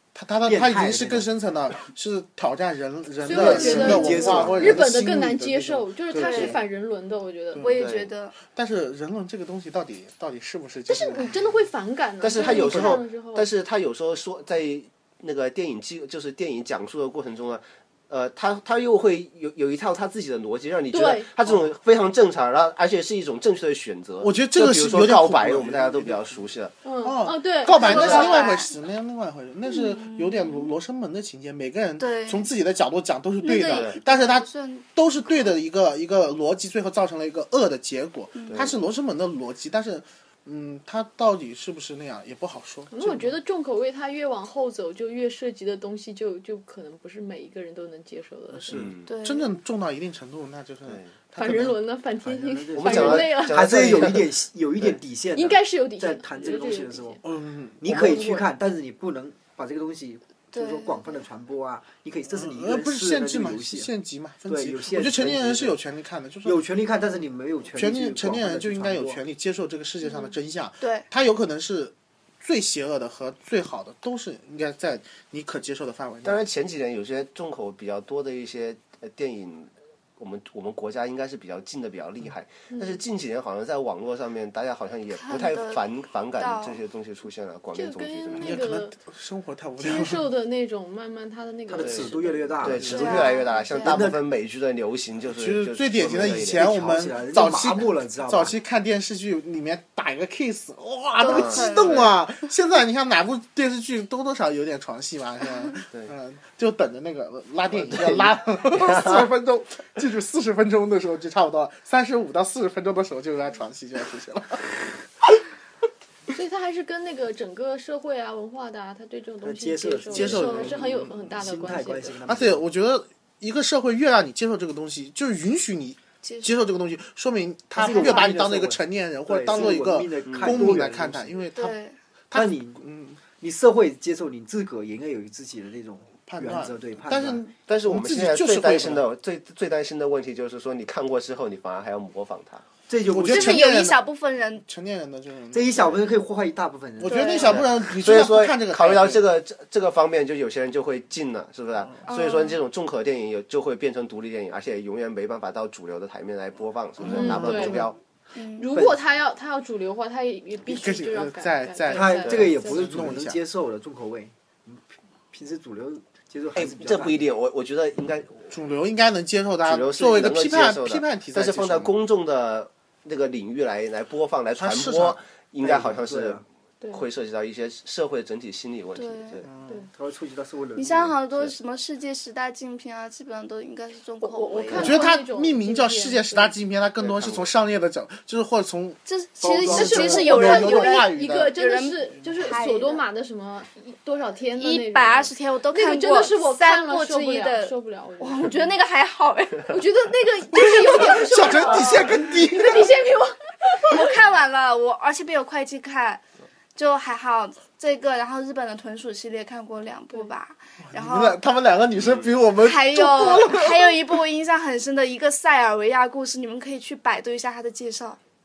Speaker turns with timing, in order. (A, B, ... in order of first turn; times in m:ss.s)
0:00.1-0:06.6 A
0:00.4-0:01.3 B
0:03.2-0:07.7 C
0:03.3-0:04.7 B
0:06.1-0:06.6 D
0:07.6-0:08.4 D
0:07.7-0:08.1 E
0:08.5-0:11.4 A
0:10.9-0:13.5 C
0:12.2-0:26.7 E
0:12.6-0:13.0 A
0:20.9-0:21.3 C
0:24.2-0:26.4 A
0:26.8-0:28.6 C
0:27.0-0:43.3 A
0:27.7-0:28.7 D
0:29.6-0:30.7 D
0:32.0-0:32.5 D
0:33.4-0:34.8 D
0:33.6-0:34.0 E
0:38.3-0:38.7 D
0:38.5-0:38.7 E
0:42.9-0:48.8 C
0:48.5-0:51.8 A
0:48.7-0:49.1 E
0:49.0-0:49.6 D
0:50.8-0:51.2 E
0:51.3-0:53.7 C
0:52.2-0:57.2 B
0:52.7-0:54.3 E
0:55.3-0:57.2 C
0:57.2-0:58.2 A
0:57.8-1:03.9 B
0:57.9-0:58.2 C
1:00.5-1:01.2 D
1:02.3-1:06.6 A
1:04.4-1:05.8 B
1:06.4-1:09.2 B
1:07.7-1:16.4 A
1:10.0-1:11.0 D
1:16.2-1:28.6 E
1:22.7-1:23.0 C
1:25.2-1:25.8 D
1:26.4-1:26.8 D
1:27.7-1:28.9 C
1:28.4-1:30.3 A
1:29.8-1:33.4 C
1:31.7-1:34.2 B
1:31.8-1:36.7 E
1:32.7-1:33.2 A
1:32.9-1:34.0 D
1:35.3-1:55.4 A
1:36.5-1:38.6 B
1:41.2-1:42.1 D
1:41.2-1:42.1 E
1:47.7-1:49.3 E
1:56.3-2:02.2 C
1:59.4-2:00.8 B
2:00.1-2:01.4 A
2:01.4-2:02.6 B
2:02.3-2:11.8 A
2:06.2-2:06.5 D
2:07.8-2:11.5 B
2:10.3-2:10.7 E
2:11.5-2:12.0 D
2:12.3-2:13.2 A
2:12.3-2:17.4 B
2:16.3-2:19.0 A
2:17.7-2:22.6 E
2:22.9-2:23.7 B
2:23.1-2:24.1 A
2:23.2-2:24.6 D
2:24.6-2:26.0 A
2:25.5-2:27.6 B
2:27.0-2:29.2 A
2:27.0-2:27.6 D
2:27.4-2:38.0 E
2:32.1-2:32.6 D
2:37.0-2:37.9 A
2:37.0-2:37.9 C
2:38.4-2:38.7 D
2:38.5-2:43.2 C
2:38.7-2:39.0 B
2:40.6-2:43.4 A
2:41.9-2:47.2 B
2:46.6-2:48.5 E
2:48.5-2:52.0 A
2:49.6-2:59.4 E
2:54.6-2:55.2 A
2:55.6-2:56.4 B
2:59.0-2:59.4 D
2:59.5-2:59.8 A
2:59.6-2:59.9 C
2:59.9-3:01.1 B
3:00.8-3:05.0 D
3:04.2-3:06.5 C
3:04.7-3:05.0 E
3:04.8-3:11.5 A
3:07.0-3:07.5 E
3:09.0-3:13.0 D
3:09.6-3:18.7 C
3:14.6-3:19.8 D
3:19.7-3:24.1 C
3:20.6-3:21.8 D
3:20.6-3:22.9 A
3:23.8-3:26.2 D
3:26.8-3:31.4 D
3:30.9-3:34.2 A
3:32.0-3:32.3 E
3:32.6-3:38.2 D